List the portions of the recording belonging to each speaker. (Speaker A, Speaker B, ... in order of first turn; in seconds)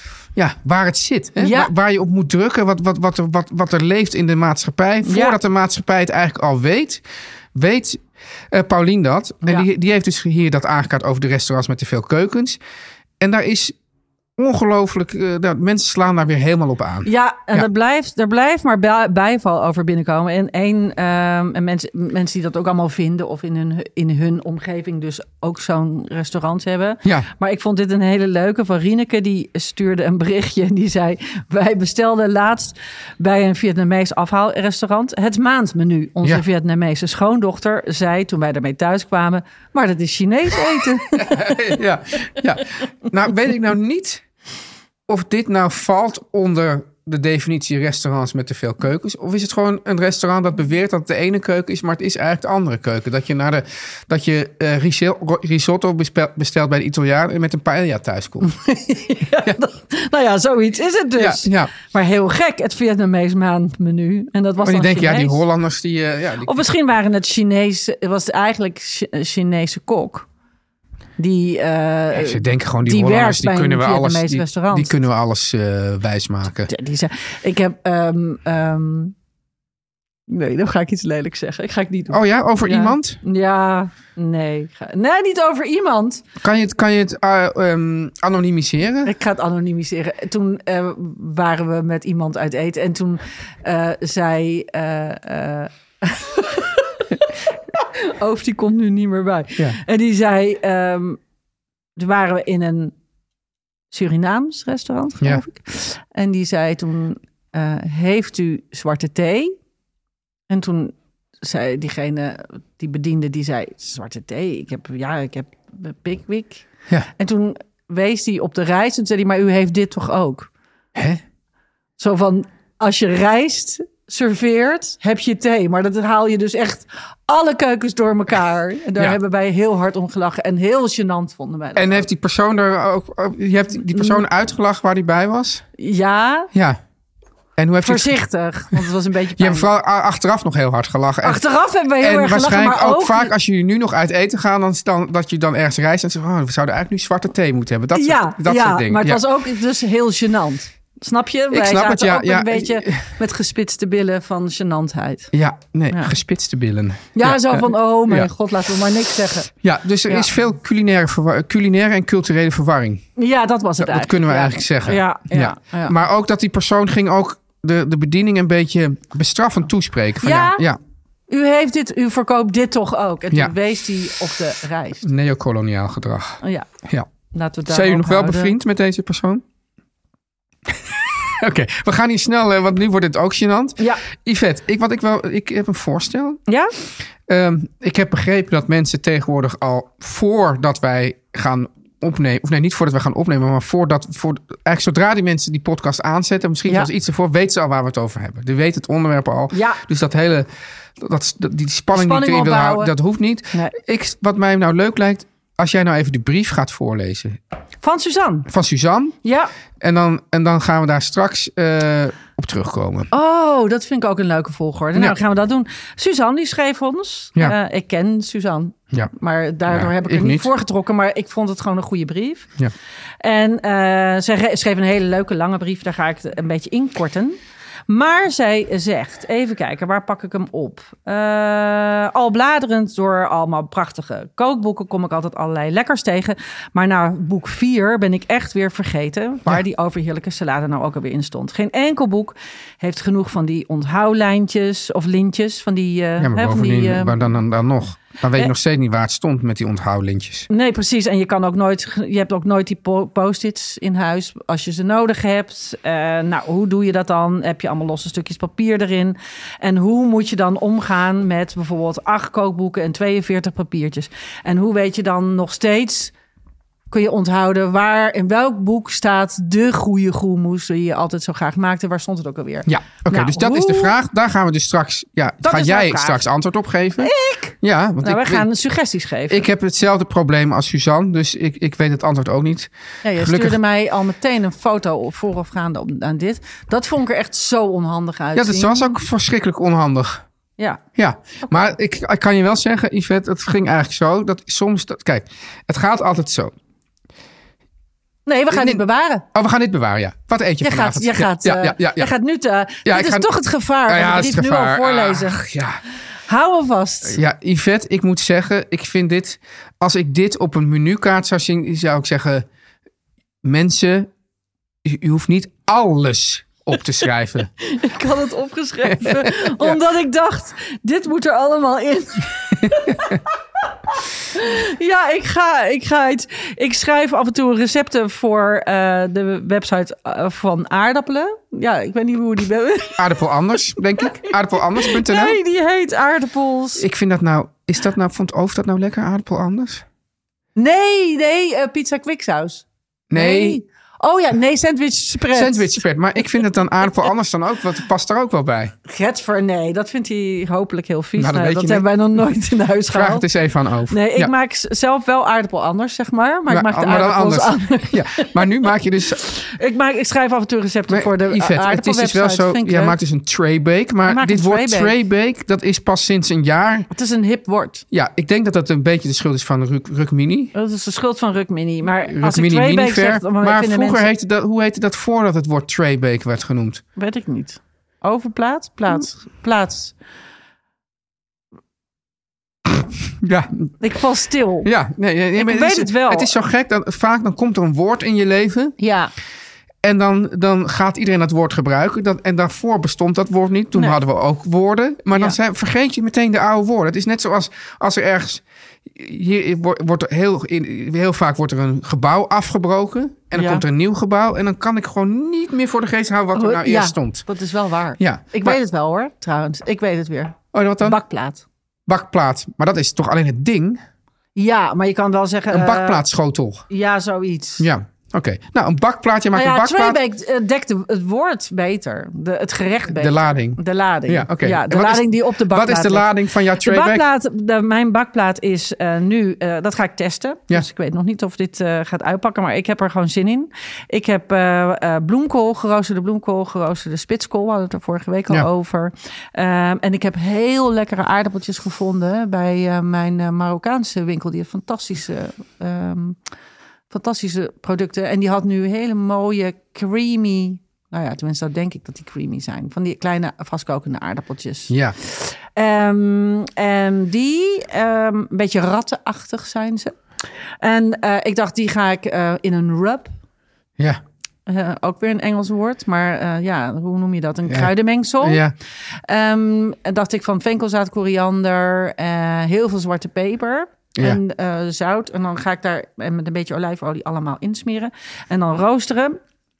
Speaker A: 0.3-7.0, 7.5-12.6, 13.2-13.7, 14.4-17.7, 41.1-44.2, 45.1-58.5, 61.1-61.7, 64.6-66.5, 72.1-76.7, 82.1-83.2, 86.4-89.1, 120.9-121.2, 131.8-135.6, 136.5-136.8, 137.6-138.2, 139.4-141.4, 142.0-149.2, 151.5-153.0, 155.3-158.3, 159.6-163.0, 163.8-170.8, 175.0-177.1, 177.7-179.4, 180.7-186.4, 187.3-207.4, 208.5-209.1, 209.8-213.1, 219.7-220.5, 246.2-250.5, 272.6-278.5, 279.3-283.6, 288.3-290.2, 290.9-296.5, 298.5-302.1, 302.8-303.3, 303.9-305.8, 307.1-312.4, 313.4-314.1, 314.8-317.5, 318.8-319.8, 322.6-323.2, 333.0-335.4, 336.8-339.8, 343.1-343.6, 345.3-348.7, 351.2-351.9, 352.9-354.3, 356.5-359.2, 360.9-366.9, 367.9-370.5, 372.1-376.8, 383.2-383.5, 384.6-388.8, 389.8-407.2, 408.0-408.6, 410.5-411.0, 411.9-413.8, 415.5-416.6, 417.6-420.0, 422.9-427.1, 454.7-454.9, 467.5-468.5
Speaker B: 1.4-1.7, 5.0-5.4, 17.0-41.6, 58.4-65.4, 66.4-70.2, 71.2-74.9, 76.7-79.1, 80.3-86.2, 89.0-97.2, 97.7-101.2, 102.0-102.9, 103.9-109.5, 110.5-120.5, 122.0-132.1, 133.9-134.2, 135.8-136.5, 137.8-139.7, 141.2-143.3, 147.9-155.3, 157.1-159.5, 163.2-165.9, 170.2-170.6, 171.3-175.1, 176.4-176.7, 177.3-178.5, 186.5-186.7, 199.5-199.8, 201.9-202.9, 207.8-208.5, 209.2-209.5, 213.1-222.5, 223.2-247.2, 250.5-266.1, 266.9-273.9, 275.4-276.2, 277.0-279.5, 283.0-288.9, 298.2-299.2, 300.6-305.4, 306.3-307.2, 317.6-323.3, 323.9-333.0, 334.0-336.8, 340.6-345.8, 348.9-353.2, 353.9-358.4, 359.2-363.0, 364.1-364.9, 366.9-367.8, 370.5-374.1, 377.0-379.9, 383.8-384.7, 385.4-386.3, 388.8-389.1, 395.1-395.4, 403.3-403.6, 406.3-411.4, 414.4-416.0, 416.7-417.7, 419.3-446.2, 446.9-460.0, 460.6-463.1, 464.5-468.4, 469.1-479.2